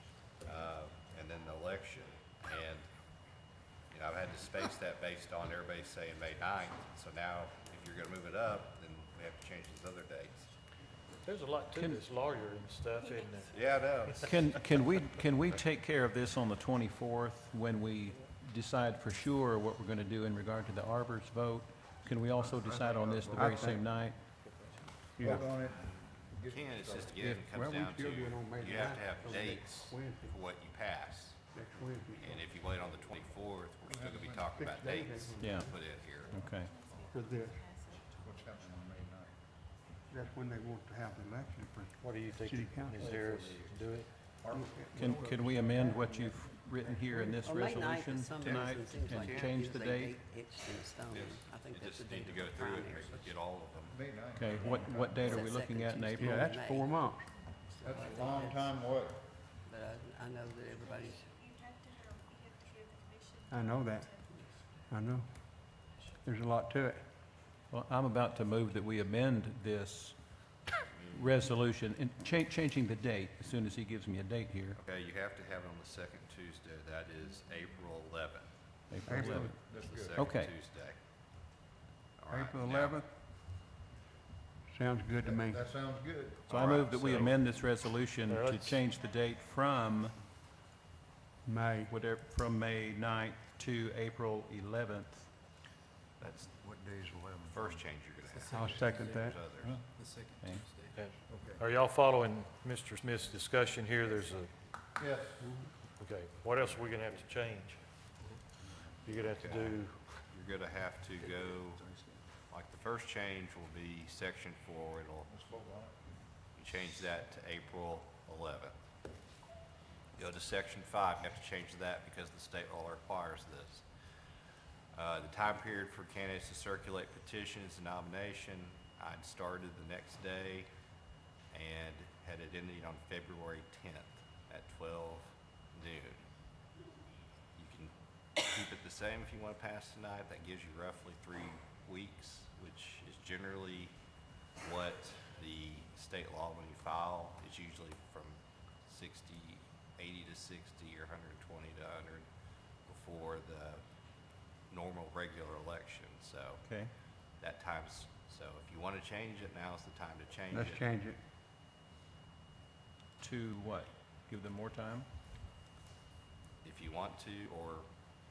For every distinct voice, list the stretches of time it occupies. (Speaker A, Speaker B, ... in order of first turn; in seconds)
Speaker A: 0.4-2.9, 3.9-10.5, 13.5-14.4, 26.4-31.4, 32.2-36.4, 51.1-54.0, 70.9-71.4, 74.7-78.5, 79.1-81.0, 82.2-83.0, 86.5-87.4, 97.5-99.8, 109.2-111.9, 112.5-115.3, 116.5-118.7, 120.2-123.8, 124.9-130.7, 131.5-136.2, 137.6-143.9, 144.6-152.2, 152.9-153.8, 154.7-156.7, 157.4-160.8, 166.6-167.9
Speaker B: 11.2-14.2, 42.0-44.2, 88.3-88.8, 101.0-104.5, 106.0-107.8, 109.0-110.2
Speaker C: 11.7-12.0, 14.2-24.3, 35.4-35.8, 36.3-36.8, 44.9-50.2, 54.3-56.6, 67.7-74.8, 78.9-79.6, 80.2-80.5, 86.5-90.2, 91.9-95.3, 100.4-100.7, 156.6-156.9, 163.2-165.1
Speaker D: 22.5-23.8, 25.2-27.3, 33.9-34.5, 38.2-39.3, 43.0-43.7, 44.3-45.4, 53.9-55.3, 57.8-59.2, 79.1-80.2, 85.2-86.8, 96.3-101.6, 105.0-105.5, 108.3-108.9, 111.2-112.2, 115.3-116.1
Speaker E: 23.3-23.8, 25.1-25.5, 27.1-30.4, 31.5-32.5, 34.5-35.9, 37.1-37.7, 40.1-43.1, 44.5-47.4, 56.2-57.3, 63.5-64.1, 64.9-65.3, 66.2-67.0, 79.0-79.6, 82.3-83.1, 84.7-85.7, 91.4-91.9, 98.5-99.5, 105.4-105.7, 160.5-161.2
Speaker F: 29.1-29.5, 43.0-43.4, 45.7-46.4, 47.3-53.3, 54.6-57.1, 57.7-58.8, 59.6-61.2